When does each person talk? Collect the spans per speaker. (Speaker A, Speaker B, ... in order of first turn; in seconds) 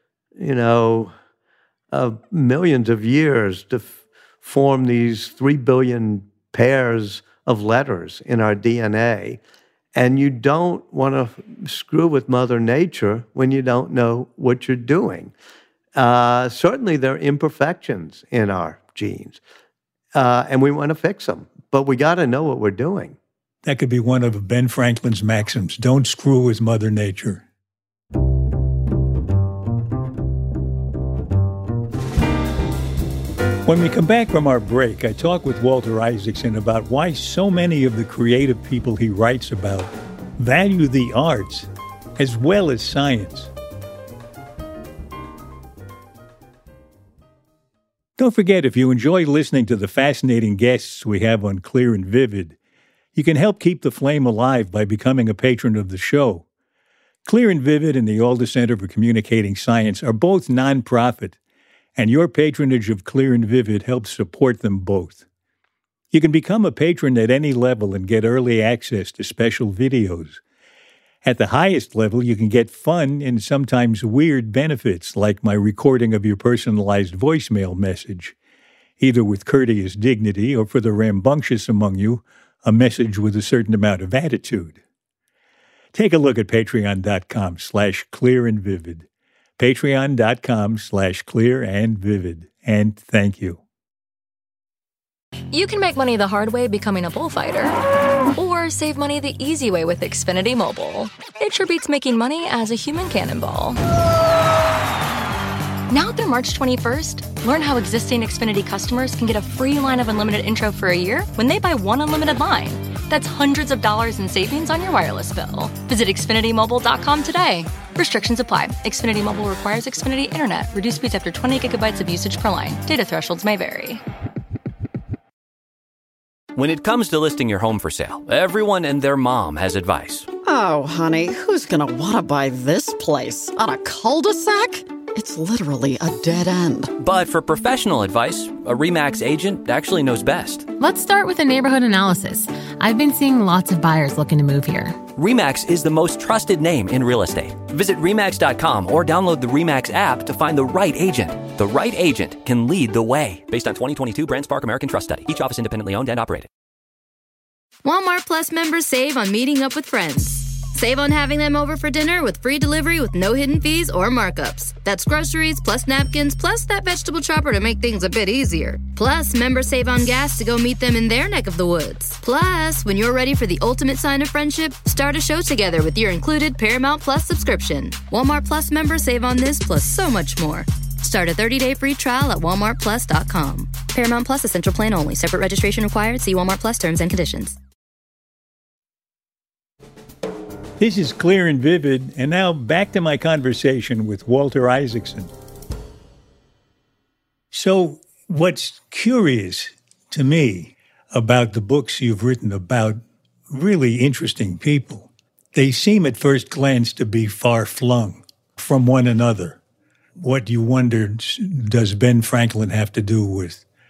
Speaker A: 0.4-1.1, 1.9-9.4, 9.9-15.3, 15.9-19.4, 20.1-23.2
Speaker B: 23.6-27.4, 33.6-43.5, 48.2-52.5, 53.1-56.5, 57.2-61.4, 62.0-65.2, 66.1-70.4, 71.2-78.3, 79.0-84.8, 85.9-89.0, 89.6-93.6, 190.8-195.3, 197.5-209.6, 210.2-213.6
Speaker C: 95.5-97.8, 98.3-103.8, 105.9-124.0
Speaker D: 126.5-130.3, 136.9-140.7, 145.1-156.5
Speaker E: 130.4-136.9
Speaker F: 140.8-145.0
Speaker G: 157.8-187.6